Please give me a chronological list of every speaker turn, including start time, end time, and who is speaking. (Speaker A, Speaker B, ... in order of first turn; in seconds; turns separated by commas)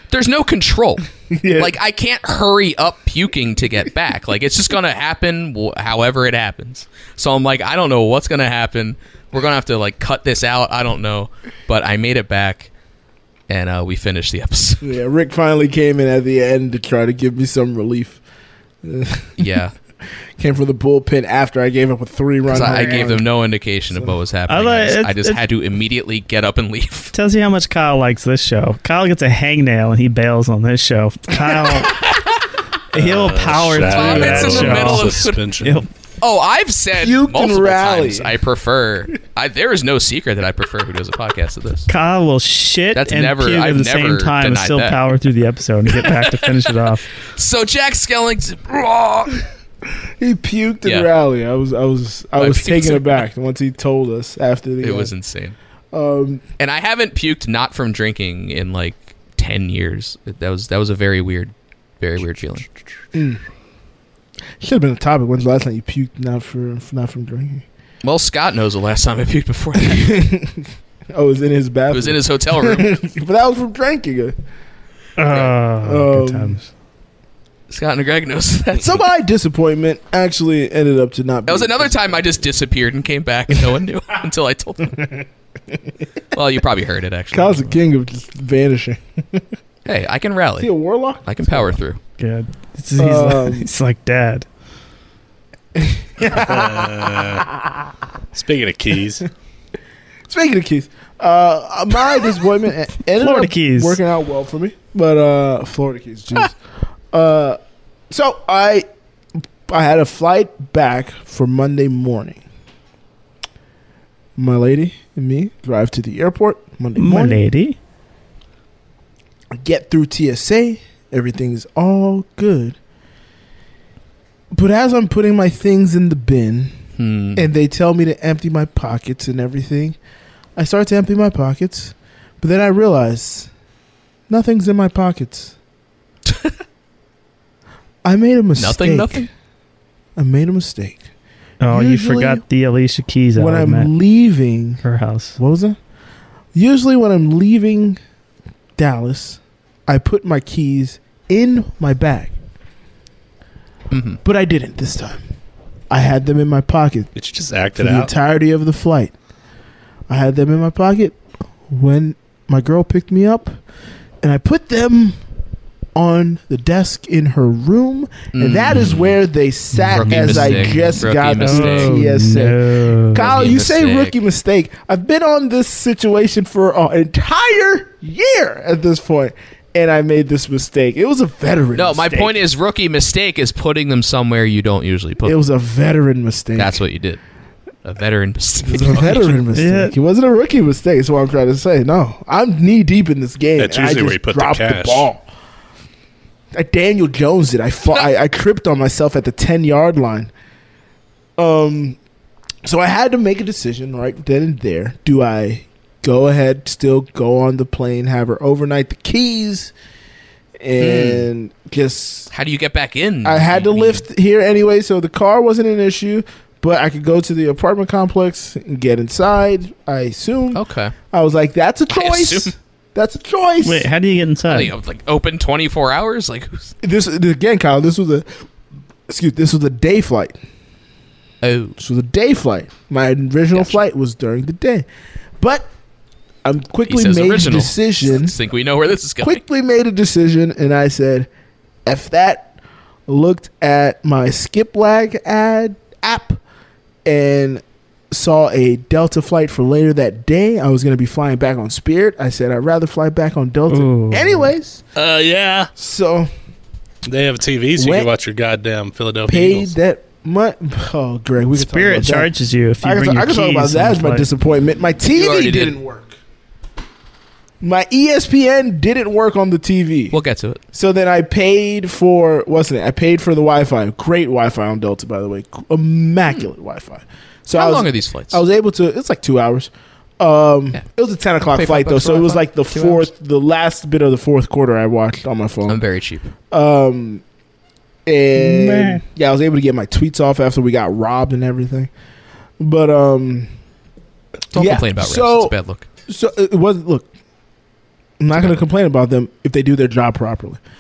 Speaker A: 0.1-12.7, Speaker B: 1.3-1.8, Speaker A: 13.5-14.9, Speaker B: 14.8-18.2, Speaker B: 18.8-19.3, Speaker A: 19.4-19.7, Speaker B: 20.4-23.3, Speaker A: 22.5-27.1, Speaker C: 24.5-25.4, Speaker C: 27.1-32.0, Speaker C: 32.9-35.9, Speaker D: 32.9-35.9, Speaker A: 33.8-35.4, Speaker A: 36.2-41.9, Speaker B: 37.0-38.4, Speaker C: 41.9-47.0, Speaker A: 42.9-45.0, Speaker A: 45.9-46.8, Speaker A: 47.4-49.4, Speaker B: 50.2-55.1, Speaker A: 50.8-51.1, Speaker A: 52.4-53.2, Speaker A: 54.8-55.6, Speaker B: 55.9-56.4, Speaker A: 56.6-62.7, Speaker B: 63.1-63.4, Speaker B: 64.6-67.7, Speaker A: 68.0-70.2, Speaker B: 69.8-74.4, Speaker A: 71.9-72.9, Speaker C: 75.2-76.7, Speaker B: 75.8-76.6, Speaker A: 77.7-79.0, Speaker B: 78.8-82.4, Speaker A: 81.5-85.1, Speaker A: 86.3-87.8, Speaker B: 87.3-89.5, Speaker A: 89.9-90.7, Speaker B: 90.6-91.8, Speaker A: 91.2-92.0, Speaker C: 92.2-94.5, Speaker B: 93.0-93.7, Speaker B: 95.8-97.5, Speaker D: 96.2-97.5, Speaker D: 98.3-99.3, Speaker B: 100.3-106.6, Speaker C: 103.2-104.0, Speaker B: 107.1-107.6, Speaker B: 108.1-108.9, Speaker B: 109.7-112.4, Speaker B: 114.4-117.4, Speaker C: 117.0-117.8, Speaker B: 119.5-122.8, Speaker B: 124.5-126.7, Speaker A: 127.0-127.5, Speaker B: 127.3-130.0, Speaker B: 130.6-133.5, Speaker B: 134.3-135.6, Speaker A: 136.3-136.5, Speaker B: 138.0-139.3, Speaker A: 138.6-139.3, Speaker B: 140.2-141.0, Speaker C: 141.6-143.9, Speaker B: 141.7-142.4, Speaker B: 143.3-144.8, Speaker C: 144.8-145.4, Speaker B: 145.4-145.8, Speaker B: 146.5-148.0, Speaker B: 148.8-152.3, Speaker A: 153.9-154.2, Speaker B: 154.2-155.2, Speaker B: 155.9-157.1, Speaker D: 157.2-158.1, Speaker B: 157.8-159.1, Speaker B: 160.1-163.6, Speaker B: 164.2-165.2, Speaker B: 165.9-182.4, Speaker A: 168.3-169.2, Speaker C: 169.7-170.8, Speaker A: 169.9-172.0, Speaker C: 171.4-173.4, Speaker A: 173.2-174.2, Speaker A: 181.8-185.4, Speaker B: 185.2-186.8, Speaker A: 186.6-187.2, Speaker A: 187.8-189.4, Speaker B: 188.7-195.2, Speaker C: 189.6-189.9, Speaker D: 193.6-195.1, Speaker B: 196.5-200.3, Speaker B: 201.4-202.0, Speaker B: 202.7-209.7, Speaker B: 210.6-212.3, Speaker A: 210.8-211.3, Speaker A: 212.3-214.0, Speaker B: 213.2-223.9, Speaker A: 220.5-220.9, Speaker A: 221.9-222.5, Speaker C: 223.6-224.7, Speaker A: 224.5-226.7, Speaker B: 226.8-228.4, Speaker B: 229.1-230.4, Speaker A: 231.4-231.8, Speaker B: 231.8-234.9, Speaker B: 235.4-235.7, Speaker B: 236.4-238.4, Speaker A: 236.9-239.4, Speaker B: 239.2-241.3, Speaker B: 241.9-242.6, Speaker B: 243.1-246.4, Speaker B: 247.1-254.8, Speaker C: 253.7-254.5, Speaker D: 254.9-255.7, Speaker B: 255.8-256.3, Speaker D: 257.1-259.7, Speaker B: 257.8-258.1, Speaker B: 259.3-262.3, Speaker C: 261.6-264.3, Speaker B: 262.8-266.2, Speaker A: 265.1-265.8, Speaker B: 267.6-270.2, Speaker A: 270.1-270.6, Speaker B: 270.7-285.8, Speaker A: 277.5-278.4, Speaker A: 281.5-283.1, Speaker A: 285.7-286.3, Speaker B: 286.5-287.2, Speaker B: 288.1-291.9, Speaker C: 288.4-288.9, Speaker B: 292.6-293.5, Speaker A: 294.5-295.9, Speaker B: 294.5-295.5, Speaker B: 296.1-297.1, Speaker B: 298.2-300.6